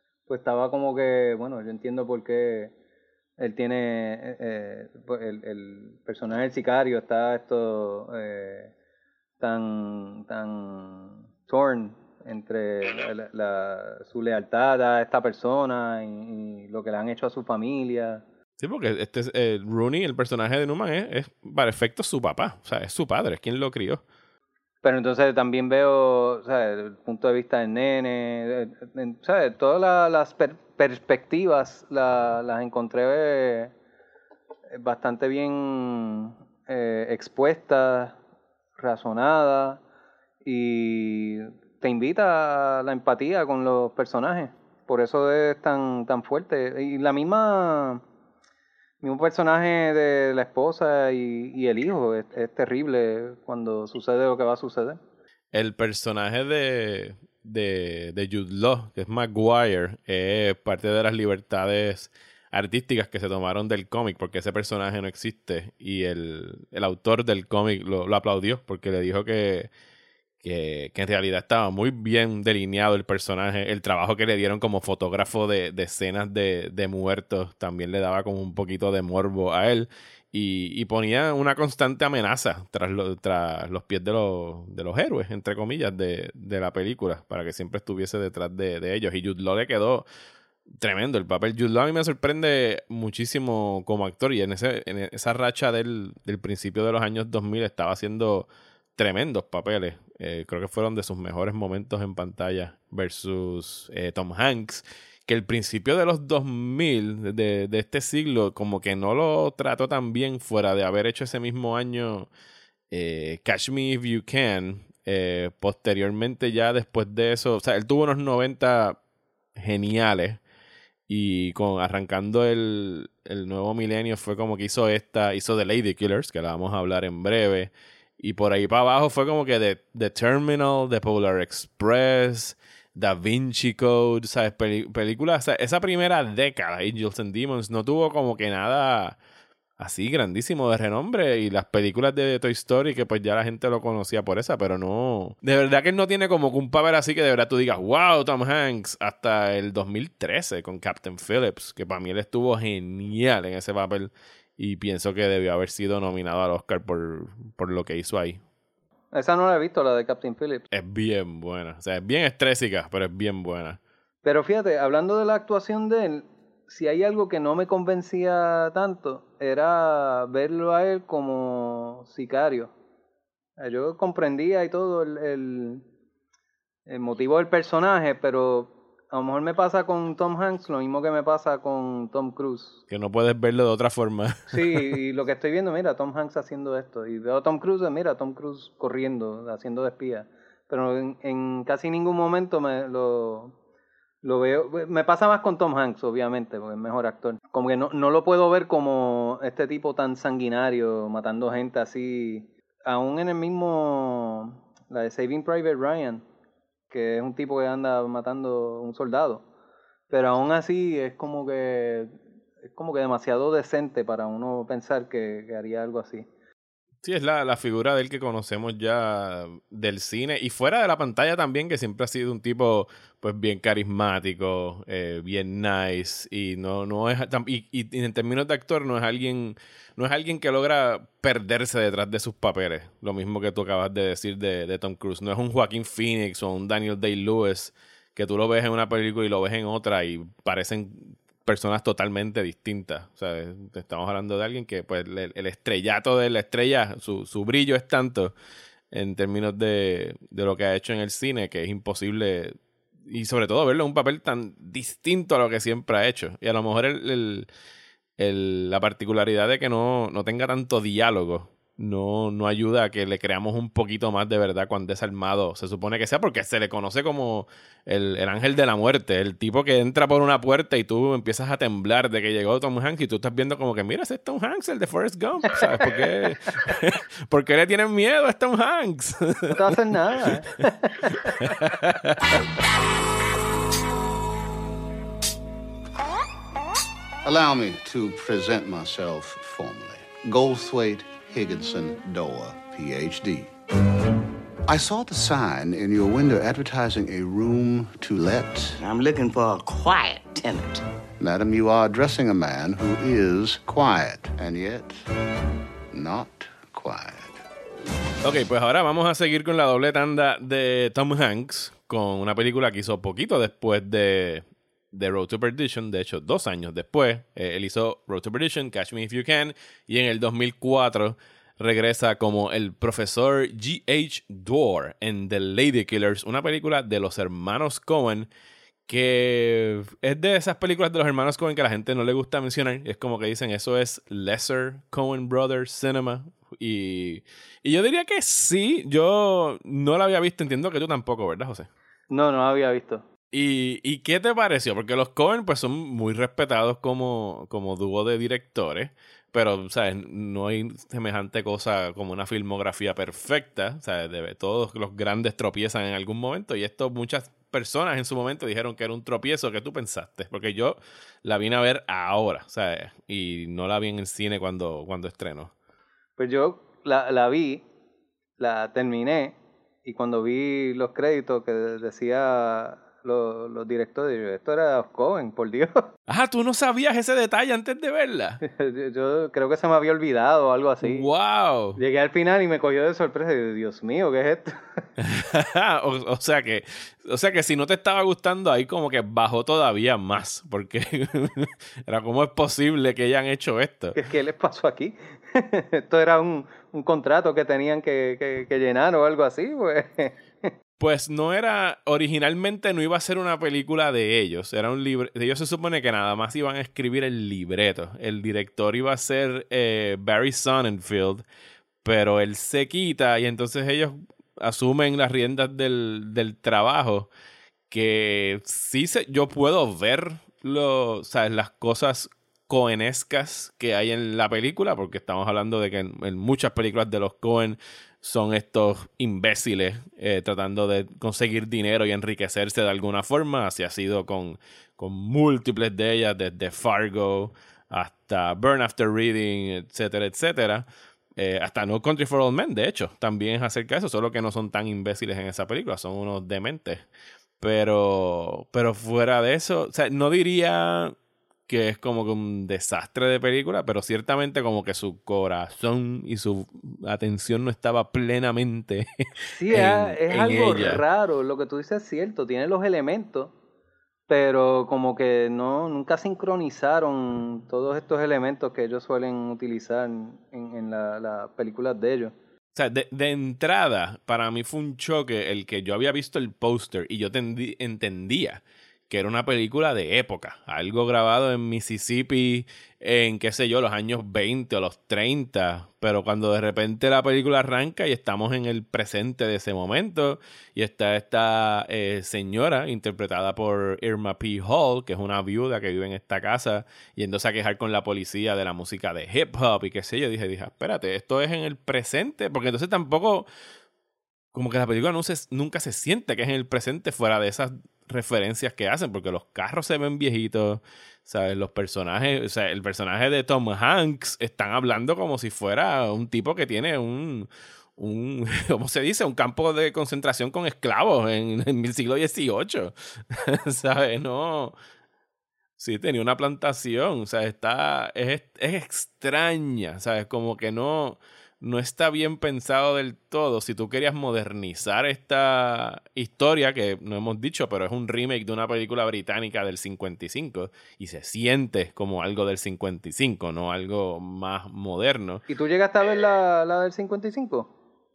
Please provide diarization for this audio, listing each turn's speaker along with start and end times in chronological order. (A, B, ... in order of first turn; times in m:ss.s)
0:00.3-0:02.7 A
0:03.4-0:08.7 A
0:09.4-0:18.2 A
0:18.6-0:24.0 B
0:24.8-0:33.7 A
0:34.7-0:38.2 A
0:38.8-0:39.8 A
0:40.4-0:48.0 A
0:49.0-0:55.0 A
0:55.5-1:09.7 B
1:10.4-1:30.0 B
1:30.8-1:52.3 B
1:52.9-1:59.0 B
1:59.6-2:00.4 B
2:01.1-2:19.2 B
2:19.8-2:38.4 B
2:39.1-2:40.6 A
2:40.7-2:43.8 B
2:44.2-2:52.7 A
2:53.6-2:55.8 A
2:56.9-3:02.8 A
3:02.9-3:04.9 B
3:04.5-3:13.5 A
3:14.2-3:26.2 A
3:26.9-3:29.4 A
3:30.1-3:32.1 A
3:32.7-3:36.3 A
3:37.0-4:08.3 B
4:08.9-4:12.5 B
4:13.1-4:17.5 B
4:18.2-4:42.4 B
4:39.5-4:41.5 A
4:47.2-4:53.5 C
4:54.7-4:58.8 C
4:58.8-5:00.8 D
5:01.2-5:05.0 C
5:05.9-5:07.4 C
5:08.2-5:28.3 B
5:28.9-5:41.7 B
5:42.1-5:43.0 A
5:43.3-6:05.5 B
6:06.2-6:07.6 A
6:08.4-6:15.9 A
6:16.1-6:18.4 B
6:18.4-6:21.1 A
6:20.8-6:21.8 B
6:21.8-6:24.8 A
6:25.0-6:34.0 B
6:33.9-6:40.5 A
6:40.8-6:51.2 B
6:51.8-6:57.1 B
6:57.7-7:20.6 B
7:21.2-7:26.8 B
7:27.4-7:30.9 B
7:31.5-7:40.8 B
7:39.3-7:43.3 A
7:44.1-7:52.1 A
7:52.5-8:23.3 B
8:24.3-8:44.6 B
8:45.6-9:05.2 B
9:05.3-9:07.5 A